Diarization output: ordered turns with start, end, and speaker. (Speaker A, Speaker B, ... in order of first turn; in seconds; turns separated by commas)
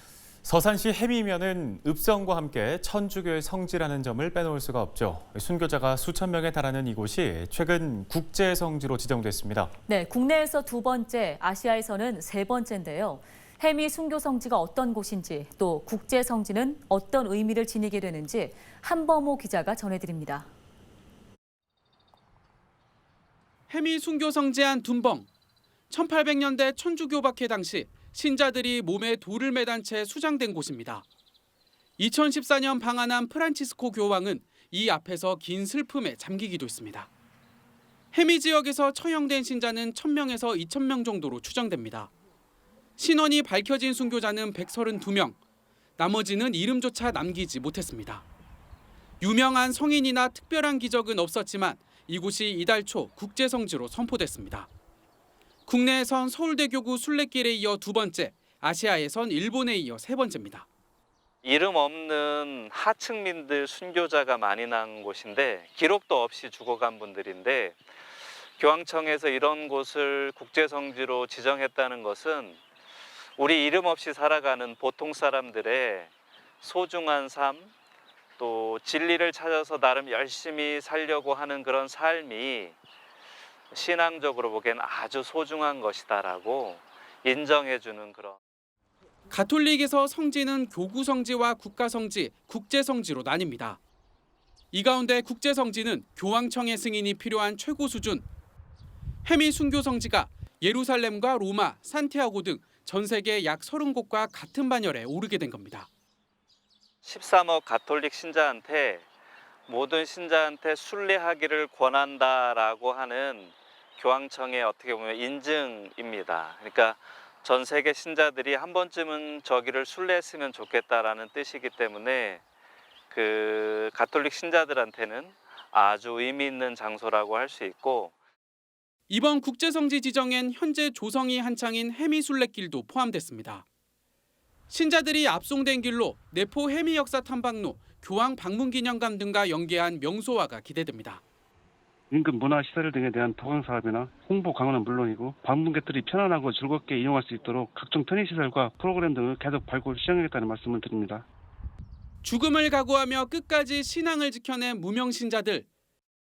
Speaker A: 0.4-9.7, Speaker B: 9.9-20.5, Speaker C: 23.7-25.3, Speaker C: 25.9-31.0, Speaker C: 32.0-37.1, Speaker C: 38.1-42.1, Speaker C: 43.0-45.4, Speaker C: 46.0-48.2, Speaker C: 49.2-54.7, Speaker C: 55.7-60.6, Speaker D: 61.4-67.8, Speaker D: 68.6-72.6, Speaker D: 73.4-76.1, Speaker D: 76.6-77.7, Speaker D: 78.4-82.8, Speaker D: 83.7-88.4, Speaker C: 89.3-93.8, Speaker C: 94.7-98.3, Speaker C: 99.2-105.9, Speaker D: 107.0-109.0, Speaker D: 109.7-122.4, Speaker D: 123.1-128.1, Speaker C: 129.1-133.6, Speaker C: 134.7-141.2, Speaker E: 142.1-151.2, Speaker C: 152.2-155.7